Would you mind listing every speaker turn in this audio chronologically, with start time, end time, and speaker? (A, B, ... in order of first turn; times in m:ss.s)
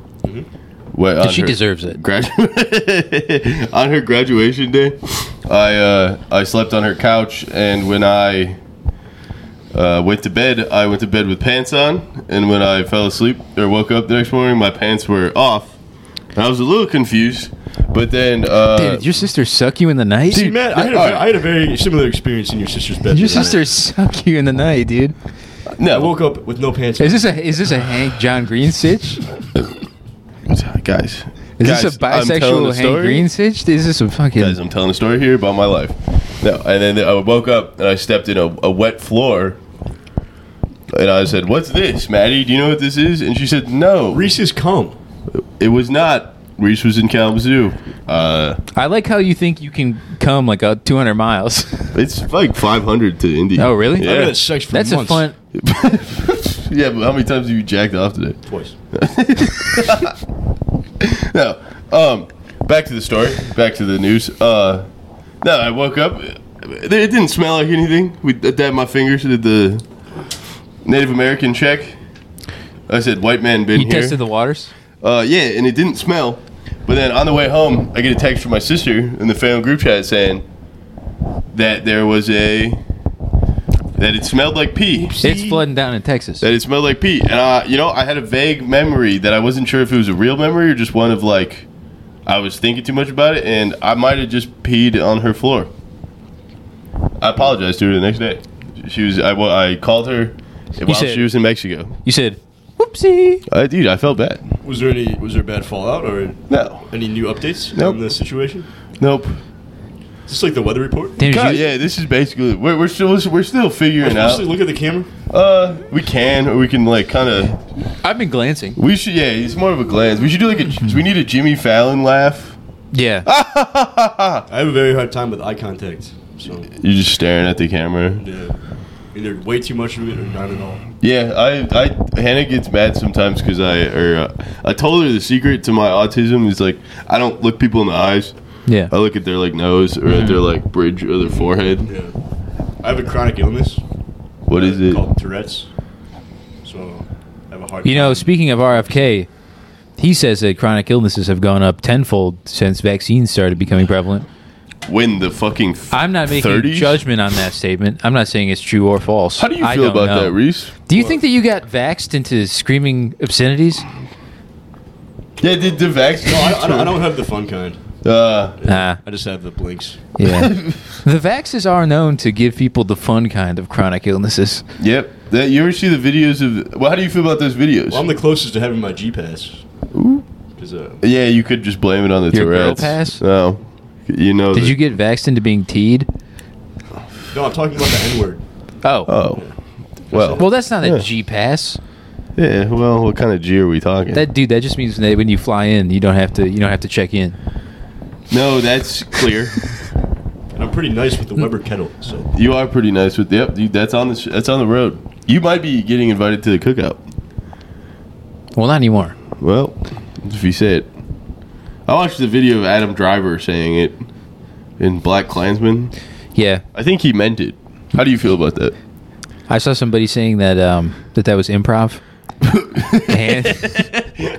0:00.9-0:08.6 A
0:01.2-0:02.0 B
0:09.7-0:15.8 A
0:16.3-0:19.1 A
0:18.7-0:20.5 B
0:20.3-0:23.6 C
0:20.3-0:21.3 A
0:23.1-0:25.1 B
0:25.7-0:26.1 A
0:25.9-0:27.3 C
0:27.0-0:29.2 B
0:30.5-0:33.3 A
0:31.6-0:34.6 B
0:34.4-0:39.6 A
0:40.9-0:44.3 A
0:44.1-0:45.0 C
0:45.3-0:48.6 A
0:48.7-0:51.9 B
0:51.9-0:54.3 A
0:53.6-0:55.4 B
0:54.0-0:55.2 C
0:55.5-1:00.2 A
0:58.4-0:58.7 C
1:01.0-1:04.9 A
1:05.4-1:09.8 A
1:10.8-1:12.0 A
1:12.9-1:14.2 A
1:13.7-1:14.7 B
1:15.0-1:20.4 A
1:21.5-1:22.8 A
1:24.0-1:25.3 A
1:25.2-1:25.6 C
1:25.2-1:26.5 B
1:26.4-1:31.7 A
1:32.2-1:35.7 A
1:37.2-1:42.0 A
1:40.8-1:41.3 B
1:42.0-1:43.4 B
1:43.5-1:44.4 A
1:44.6-1:48.7 C
1:46.5-1:46.9 A
1:47.7-1:48.0 A
1:49.0-1:49.4 A
1:50.3-1:51.3 C
1:51.2-1:51.6 B
1:51.3-1:54.5 A
1:54.0-1:55.1 C
1:55.3-1:57.6 A
1:58.0-1:58.8 B
1:58.8-2:02.6 A
2:02.9-2:03.2 B
2:03.2-2:04.4 A
2:04.5-2:06.7 C
2:06.7-2:08.2 A
2:08.2-2:08.6 C
2:09.1-2:10.8 C
2:11.0-2:21.9 A
2:18.6-2:18.9 B
2:20.1-2:20.4 B
2:21.4-2:22.1 C
2:22.8-2:23.8 C
2:24.5-2:25.0 A
2:24.5-2:25.7 C
2:26.6-2:28.6 C
2:27.8-2:29.3 B
2:30.0-2:34.3 B
2:34.8-2:37.0 A
2:35.9-2:43.9 B
2:39.4-2:40.7 A
2:40.9-2:41.2 C
2:45.4-2:47.0 A
2:46.2-2:47.9 C
2:48.0-2:48.6 A
2:48.6-2:50.0 C
2:48.6-2:49.0 B
2:50.2-2:54.6 B
2:50.2-2:50.8 A
2:54.8-2:58.1 A
2:57.9-2:59.6 C
2:59.9-3:00.3 A
3:00.6-3:01.0 C
3:01.0-3:04.8 A
3:02.3-3:03.2 B
3:04.5-3:06.1 B
3:07.3-3:08.4 C
3:08.8-3:09.1 B
3:09.1-3:09.4 A
3:10.0-3:11.1 A
3:10.1-3:10.5 C
3:10.4-3:11.8 B
3:12.4-3:14.2 A
3:14.1-3:17.4 B
3:18.3-3:19.6 A
3:20.5-3:22.3 C
3:22.3-3:27.0 A
3:28.5-3:29.2 B
3:29.4-3:30.9 A
3:31.8-3:34.0 A
3:34.8-3:35.9 A
3:36.3-3:36.6 B
3:36.7-3:38.7 A
3:39.5-3:42.0 B
3:42.4-3:43.8 A
3:43.1-3:43.8 B